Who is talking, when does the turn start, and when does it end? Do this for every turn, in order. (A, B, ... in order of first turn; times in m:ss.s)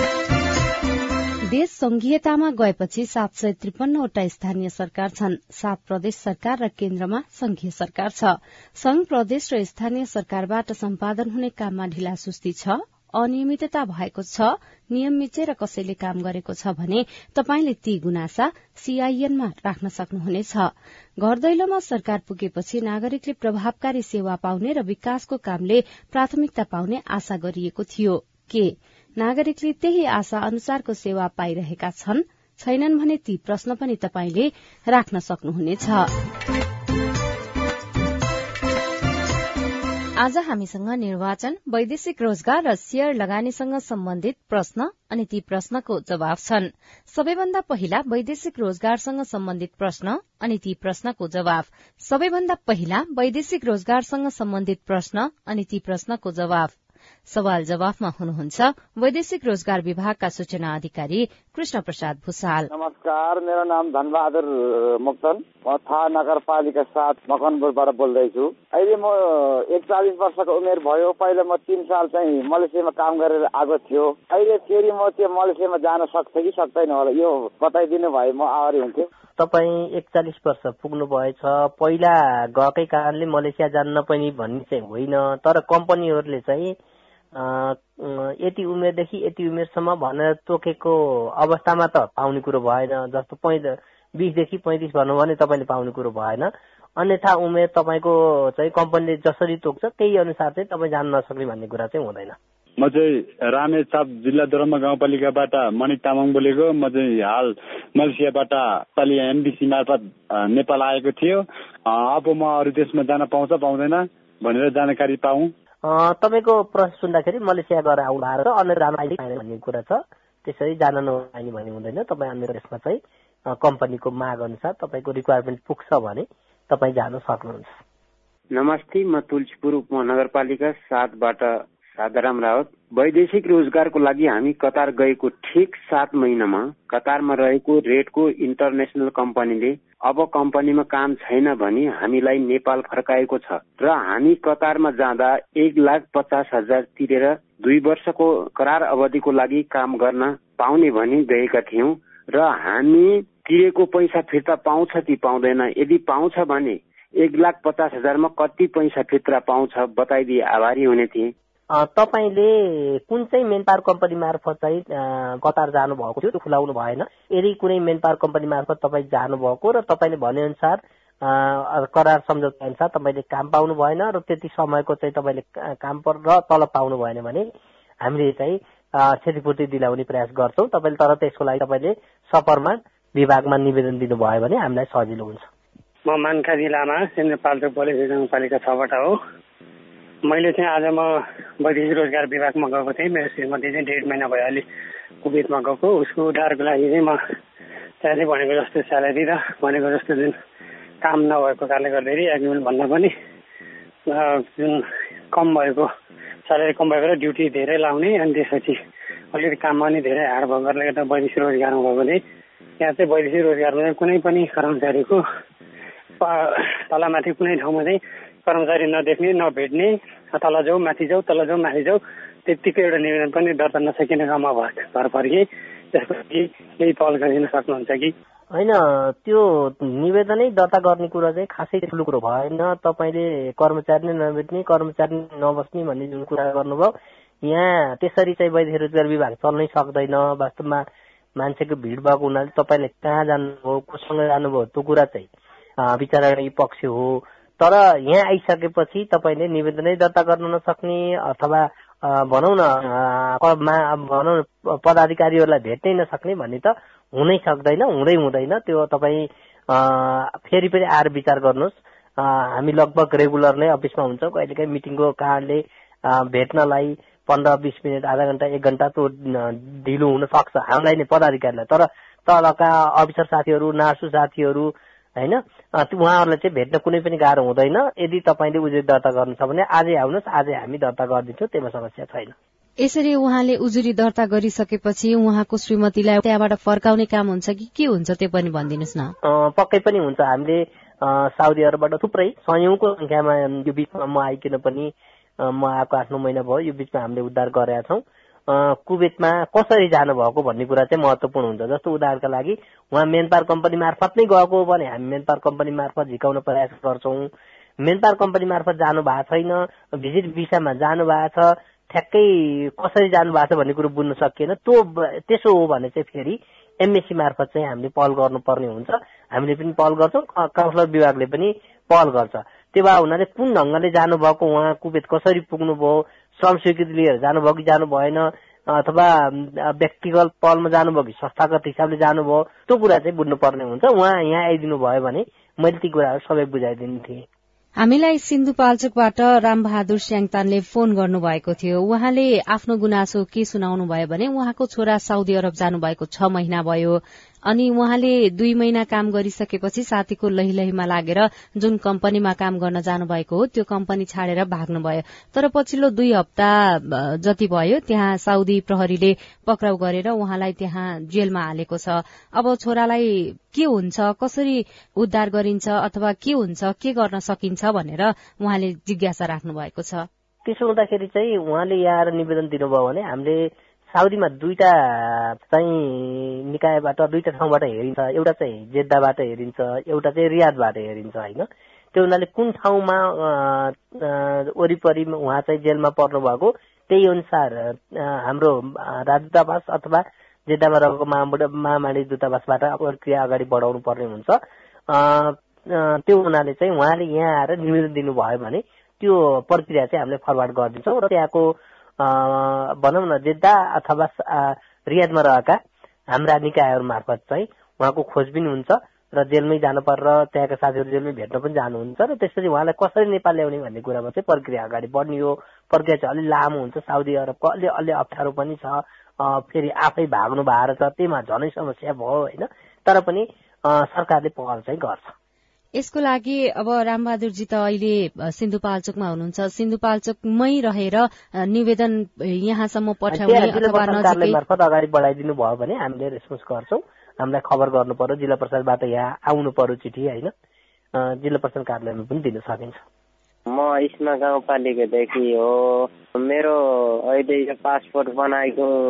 0:01.5-0:36.1 A
0:40.2-0:56.8 A
0:57.3-1:02.7 A
1:02.7-1:04.5 B
1:05.0-1:09.1 B
1:09.7-1:19.0 B
1:19.4-1:26.8 C
1:27.4-1:42.4 C
1:42.8-1:55.5 D
1:55.8-2:07.8 C
2:08.5-2:41.3 E
2:41.7-2:57.5 C
2:58.0-3:05.5 C
3:06.1-3:09.2 F
3:10.3-3:14.6 F
3:15.2-3:17.2 F
3:18.0-3:20.4 F
3:21.0-3:23.1 F
3:24.1-3:25.9 F
3:26.5-3:28.8 F
3:29.3-3:32.2 F
3:32.8-3:35.2 F
3:36.2-3:48.1 F
3:48.5-3:56.9 C
3:57.4-4:00.8 C
4:01.4-4:05.3 C
4:05.8-4:42.4 C
4:42.8-4:49.1 A
4:49.2-5:07.3 C
5:07.8-5:37.3 C
5:37.8-6:10.1 A
6:10.4-6:45.6 C
6:46.1-7:05.1 C
7:05.8-7:14.4 A
7:13.1-7:20.3 C
7:21.0-7:22.8 C
7:23.5-7:28.7 G